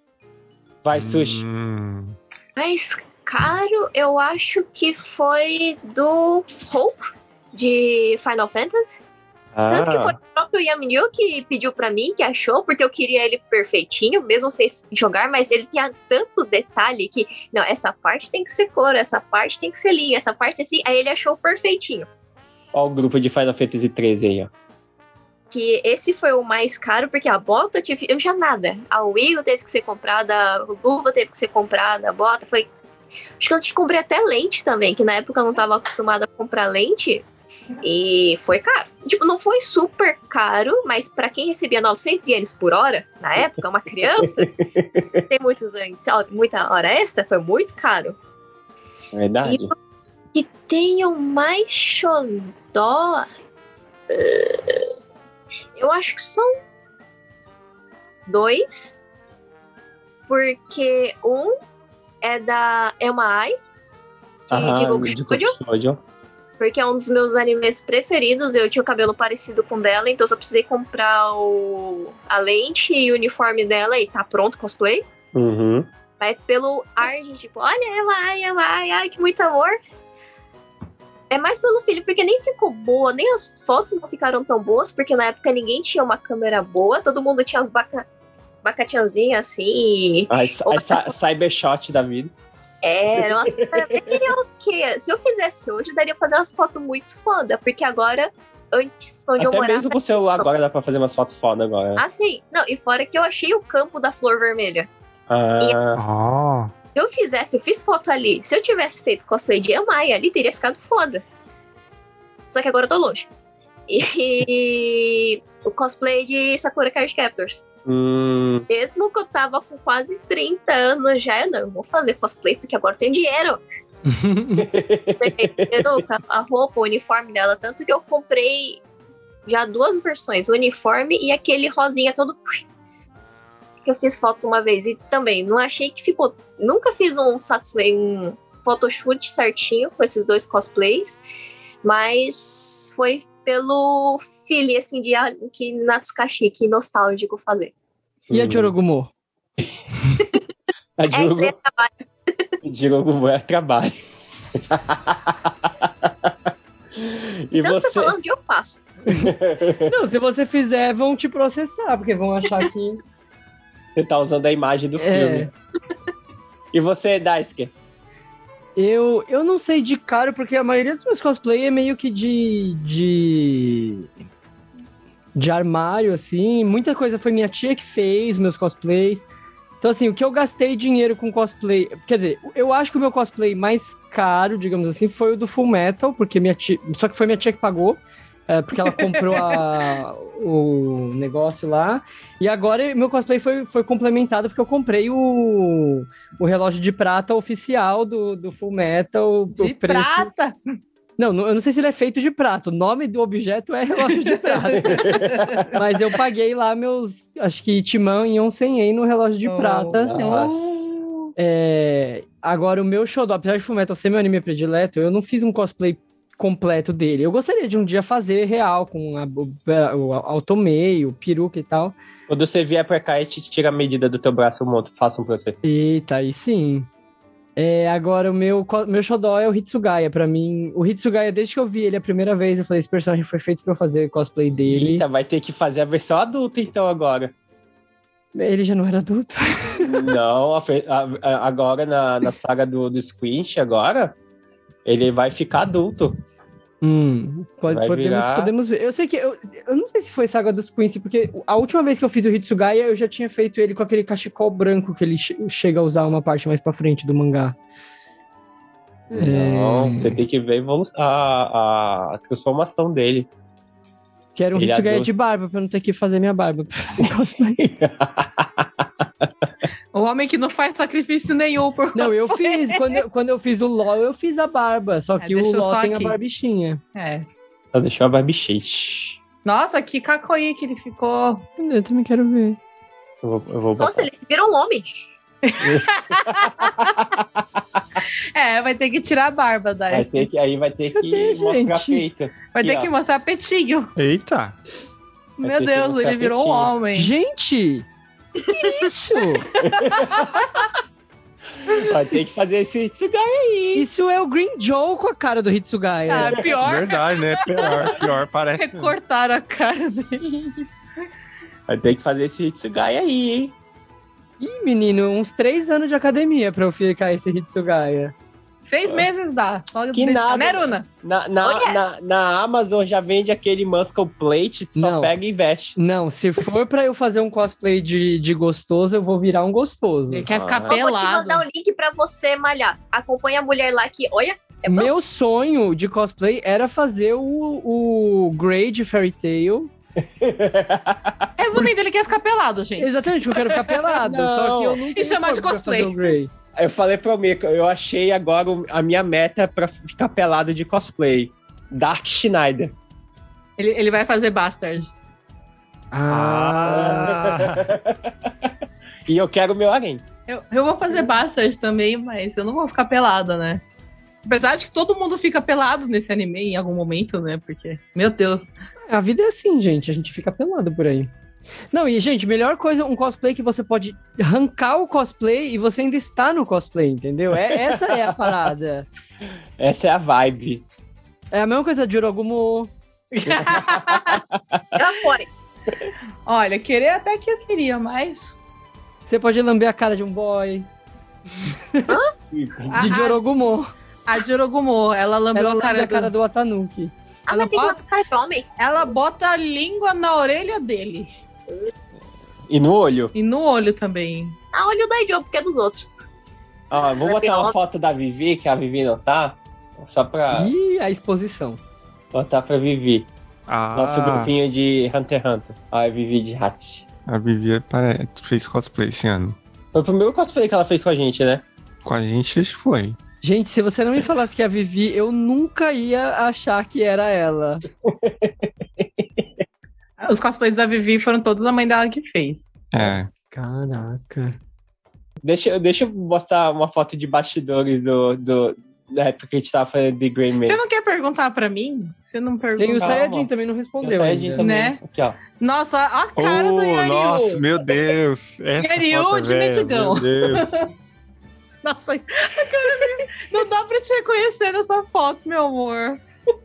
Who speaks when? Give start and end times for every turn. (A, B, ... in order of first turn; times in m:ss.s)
0:00.8-0:01.4 A
0:00.9-0:02.2 B
0:02.6-0:09.0 C
0:09.6-0:10.2 A
0:09.7-0:22.1 C
0:22.7-0:24.5 A
0:25.5-0:32.7 C
0:33.4-0:37.2 C
0:37.8-0:44.5 C
0:44.2-0:45.2 A
0:45.3-0:48.2 C
0:49.1-0:49.7 A
0:50.3-0:53.3 C
0:54.1-0:54.8 C
0:55.8-0:56.5 C
0:58.3-0:59.0 C
1:00.3-1:01.5 C
1:02.2-1:03.6 C
1:04.5-1:06.0 A
1:04.5-1:05.6 C
1:06.6-1:15.1 C
1:15.3-1:15.9 A
1:16.2-1:19.8 C
1:21.3-1:28.1 C
1:28.6-1:31.1 C
1:30.3-1:32.3 A
1:32.8-1:40.4 C
1:33.2-1:34.3 A
1:39.4-1:42.0 A
1:42.0-1:44.9 C
1:45.3-1:46.0 A
1:46.0-1:46.7 B
1:47.0-1:51.2 C
1:52.5-1:53.3 C
1:53.9-1:57.6 C
1:57.8-1:58.7 A
1:58.7-2:03.6 C
2:04.1-2:04.7 D
2:04.6-2:06.0 A
2:05.2-2:08.8 C
2:09.4-2:12.6 C
2:13.8-2:21.2 C
2:21.8-2:27.7 C
2:28.3-2:28.7 A
2:28.3-2:29.1 D
2:31.0-2:31.5 A
2:31.1-2:32.5 C
2:32.6-2:33.9 A
2:34.6-2:36.3 A
2:37.0-2:38.2 A
2:37.5-2:38.8 C
2:39.1-2:39.9 A
2:39.9-2:43.0 D
2:44.0-2:45.5 A
2:45.0-2:45.5 D
2:46.7-2:47.7 A
2:48.8-2:54.1 D
2:55.4-2:59.3 D
2:59.8-3:20.3 D
3:08.9-3:09.6 E
3:19.6-3:20.6 E
3:21.2-3:25.2 D
3:24.4-3:25.7 E
3:24.8-3:25.7 A
3:25.7-3:30.2 D
3:29.4-3:30.9 E
3:30.0-3:30.8 A
3:31.4-3:42.0 D
3:42.3-3:45.6 A
3:45.6-3:46.9 D
3:47.6-3:55.0 D
3:54.6-3:57.3 A
3:58.3-4:00.0 D
3:59.8-4:04.2 A
4:04.8-4:06.2 A
4:06.8-4:17.6 D
4:07.7-4:08.5 A
4:19.1-4:20.2 D
4:19.1-4:23.3 A
4:24.4-4:27.6 D
4:24.6-4:25.1 A
4:27.6-4:29.3 A
4:29.9-4:33.0 E
4:32.0-4:36.8 D
4:35.2-4:36.2 E
4:37.0-4:37.3 E
4:37.7-4:39.2 A
4:39.4-4:41.4 E
4:41.6-4:42.6 D
4:43.2-4:44.1 A
4:43.8-4:45.1 C
4:45.4-4:47.0 E
4:45.6-4:47.8 A
4:48.4-4:50.3 E
4:49.9-4:52.9 A
4:50.9-4:52.0 D
4:52.5-4:53.9 E
4:54.0-4:54.6 B
4:55.4-4:57.1 E
4:55.4-4:56.7 A
4:57.0-4:57.9 D
4:58.5-4:59.5 D
4:59.6-5:00.5 E
4:59.6-5:00.4 A
5:01.6-5:03.9 A
5:03.7-5:06.4 D
5:06.1-5:08.0 E
5:06.6-5:09.0 B
5:08.6-5:10.7 E
5:11.7-5:13.5 A
5:14.4-5:18.2 D
5:18.7-5:20.9 E
5:19.9-5:25.8 A
5:21.4-5:21.8 C
5:24.8-5:25.1 D
5:25.8-5:30.2 D
5:30.1-5:31.4 E
5:30.3-5:30.8 A
5:30.7-5:34.9 C
5:34.7-5:39.7 D
5:40.0-5:41.3 A
5:41.4-5:43.8 E
5:42.8-5:46.3 D
5:44.0-5:44.8 A
5:45.0-5:46.1 E
5:46.6-5:52.7 A
5:53.6-5:54.9 E
5:55.9-5:57.1 D
5:56.1-5:57.7 B
5:56.7-5:58.5 A
5:59.1-6:00.0 A
6:00.3-6:03.6 E
6:04.3-6:08.5 E
6:08.9-6:11.1 D
6:11.7-6:18.9 D
6:17.4-6:18.4 A
6:19.6-6:20.6 A
6:21.3-6:22.7 D
6:23.1-6:24.2 E
6:23.3-6:24.6 A
6:24.7-6:25.3 C
6:26.3-6:28.4 E
6:29.1-6:30.7 D
6:32.3-6:33.0 A
6:32.7-6:33.2 E
6:32.7-6:33.7 D
6:34.1-6:36.1 E
6:35.3-6:36.9 D
6:37.3-6:38.5 C
6:37.3-6:37.8 E
6:38.6-6:41.1 E
6:42.5-6:43.1 A
6:43.1-6:44.4 E
6:44.5-6:45.9 C
6:46.7-6:50.5 A
6:47.0-6:47.6 C
6:50.3-6:51.6 D
6:52.1-6:53.1 A
6:53.5-6:54.3 B
6:53.7-6:56.9 A
6:57.1-6:59.4 B
6:59.7-7:01.4 A
7:01.8-7:03.0 B
7:03.2-7:07.6 D
7:07.9-7:09.3 A
7:10.0-7:12.5 E
7:12.7-7:13.1 B
7:13.3-7:14.4 D
7:15.2-7:20.6 A
7:20.4-7:23.0 E
7:22.6-7:24.4 D
7:22.8-7:23.3 A
7:23.8-7:25.2 A
7:24.4-7:24.8 E
7:25.4-7:27.4 E
7:26.2-7:30.4 B
7:28.6-7:30.7 E
7:30.0-7:30.5 A
7:31.6-7:36.0 E